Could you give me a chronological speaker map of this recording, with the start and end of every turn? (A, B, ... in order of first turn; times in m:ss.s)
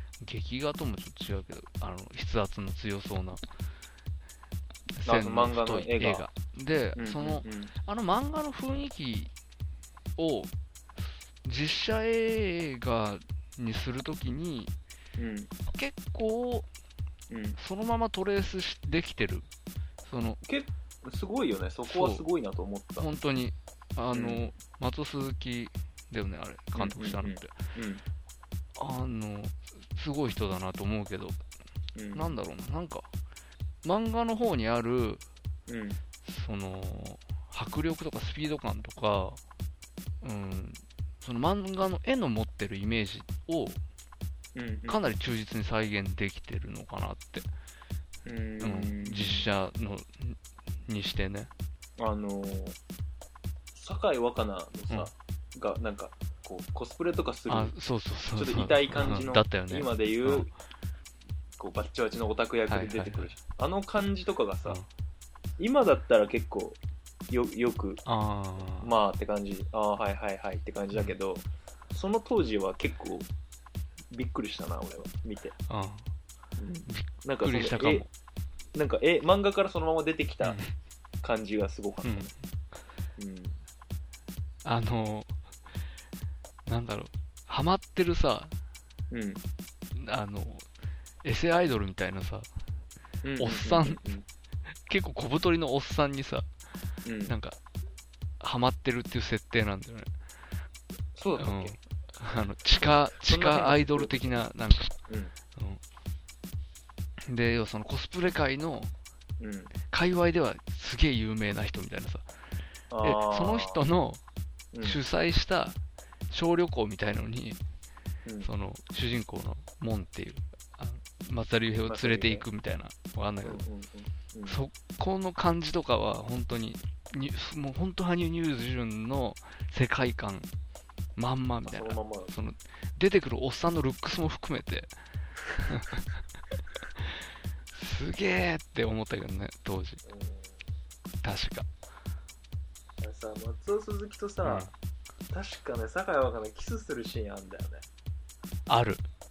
0:00.2-0:03.4 A
0:05.0-0:09.3 A
0:05.0-0:06.2 B
0:07.0-0:07.7 B
0:10.2-0:10.5 A
0:11.4-0:14.7 A
0:15.2-0:15.5 B
0:15.7-0:16.7 A
0:17.3-0:17.6 B
0:17.6-0:19.5 A
0:20.1-0:20.4 A
0:20.4-0:23.1 B
0:21.9-0:22.2 A
0:23.0-0:27.5 A
0:24.1-0:24.5 B
0:26.8-0:28.0 B
0:28.8-0:31.4 A
0:32.0-0:32.4 B
0:32.1-0:33.1 A
0:33.8-0:35.2 A
0:35.7-0:36.0 B
0:36.2-0:39.4 A
0:40.2-0:43.8 A
0:44.6-0:45.0 B
0:44.9-0:47.5 A
0:48.2-0:49.5 B
0:48.6-0:51.5 A
0:52.0-0:52.8 B
0:53.8-0:57.8 B
0:57.5-1:00.5 A
0:58.4-1:00.5 B
1:01.6-1:04.8 B
1:02.7-1:03.3 A
1:05.6-1:06.8 B
1:07.3-1:08.0 B
1:08.1-1:08.9 A
1:08.8-1:13.3 B
1:14.1-1:15.5 B
1:15.7-1:16.1 A
1:16.6-1:18.1 B
1:16.9-1:18.1 A
1:18.8-1:20.6 B
1:20.4-1:20.7 A
1:21.2-1:22.3 B
1:22.0-1:22.3 A
1:23.2-1:23.6 B
1:24.6-1:25.4 A
1:26.7-1:28.5 A
1:29.1-1:29.4 B
1:30.0-1:30.7 A
1:31.2-1:32.5 A
1:33.2-1:34.2 B
1:33.4-1:34.0 A
1:34.9-1:36.5 A
1:37.0-1:37.4 B
1:37.3-1:37.6 A
1:38.4-1:40.1 A
1:41.2-1:41.8 B
1:41.4-1:44.9 A
1:42.8-1:44.4 B
1:45.1-1:45.3 B
1:47.3-1:48.9 A
1:49.4-1:49.7 B
1:49.9-1:52.2 A
1:52.9-1:53.8 B
1:53.0-1:54.2 A
1:54.7-1:55.0 B
1:54.8-1:55.8 A
1:56.3-1:57.6 A
1:58.2-1:58.5 B
1:58.4-2:03.6 A
2:01.9-2:02.5 B
2:03.4-2:04.6 B
2:04.5-2:10.5 A
2:11.2-2:14.9 A
2:11.6-2:12.3 B
2:15.7-2:16.0 A
2:17.7-2:20.0 A
2:20.1-2:20.6 B
2:21.2-2:21.7 A
2:23.0-2:24.7 B
2:24.4-2:24.7 A
2:25.3-2:27.8 B
2:28.7-2:29.0 A